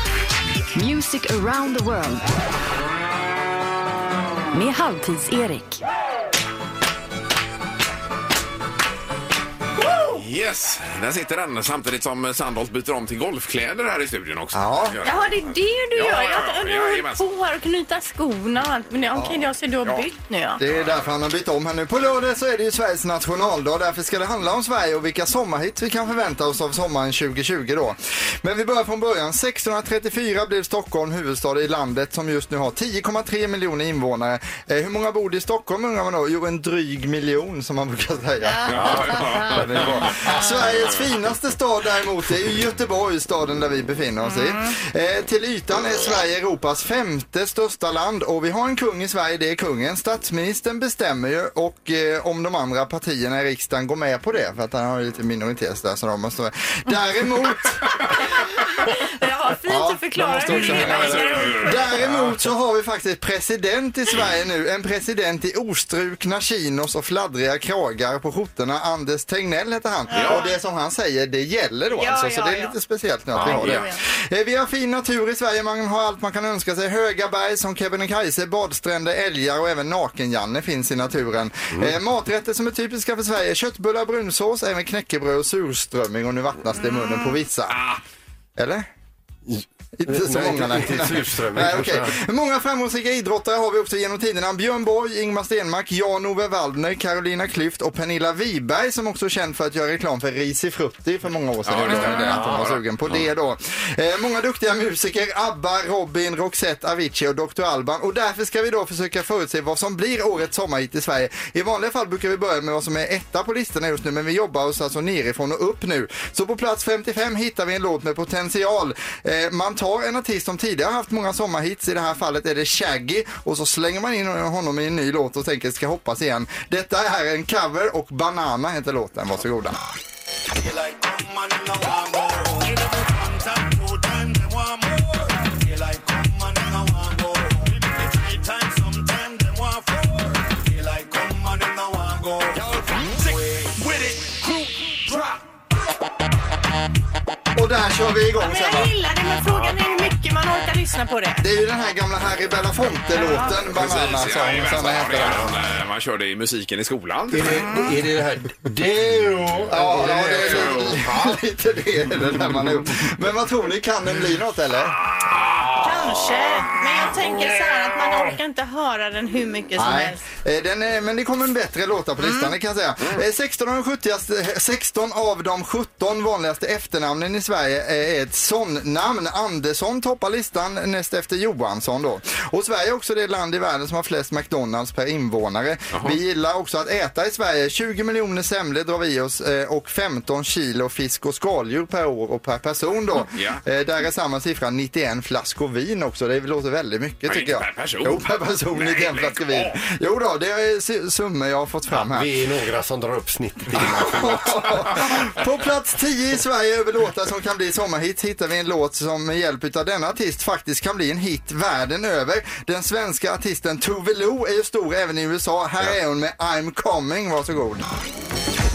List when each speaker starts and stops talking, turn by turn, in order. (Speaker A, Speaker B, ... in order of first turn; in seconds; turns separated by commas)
Speaker A: 0.7-2.3, Speaker A: 4.5-5.8, Speaker B: 10.1-15.4, Speaker C: 14.5-15.0, Speaker D: 15.0-20.6, Speaker B: 15.9-17.2, Speaker C: 19.1-19.4, Speaker C: 20.6-57.9, Speaker B: 20.7-21.1, Speaker D: 38.4-41.0, Speaker B: 38.7-39.6, Speaker D: 44.2-44.7, Speaker D: 59.0-62.0, Speaker C: 59.6-87.8, Speaker B: 60.5-62.2, Speaker D: 70.1-70.6, Speaker B: 70.1-70.4, Speaker D: 71.9-72.8, Speaker D: 73.3-74.0, Speaker E: 73.4-73.8, Speaker B: 87.7-88.0, Speaker C: 88.6-88.9, Speaker E: 89.5-92.2, Speaker C: 90.0-129.8, Speaker B: 101.7-102.8, Speaker E: 102.1-102.7, Speaker F: 130.6-145.4, Speaker C: 147.6-148.9, Speaker D: 148.4-151.5, Speaker C: 151.4-155.5, Speaker D: 153.1-153.6, Speaker B: 153.6-157.7, Speaker E: 157.3-161.4, Speaker C: 159.7-165.0, Speaker B: 160.4-160.8, Speaker B: 165.6-166.3, Speaker D: 165.8-170.2, Speaker C: 169.8-202.3, Speaker D: 172.2-172.6, Speaker B: 185.9-186.2, Speaker B: 193.3-193.6, Speaker B: 197.3-199.8, Speaker E: 201.9-204.9, Speaker C: 203.8-217.9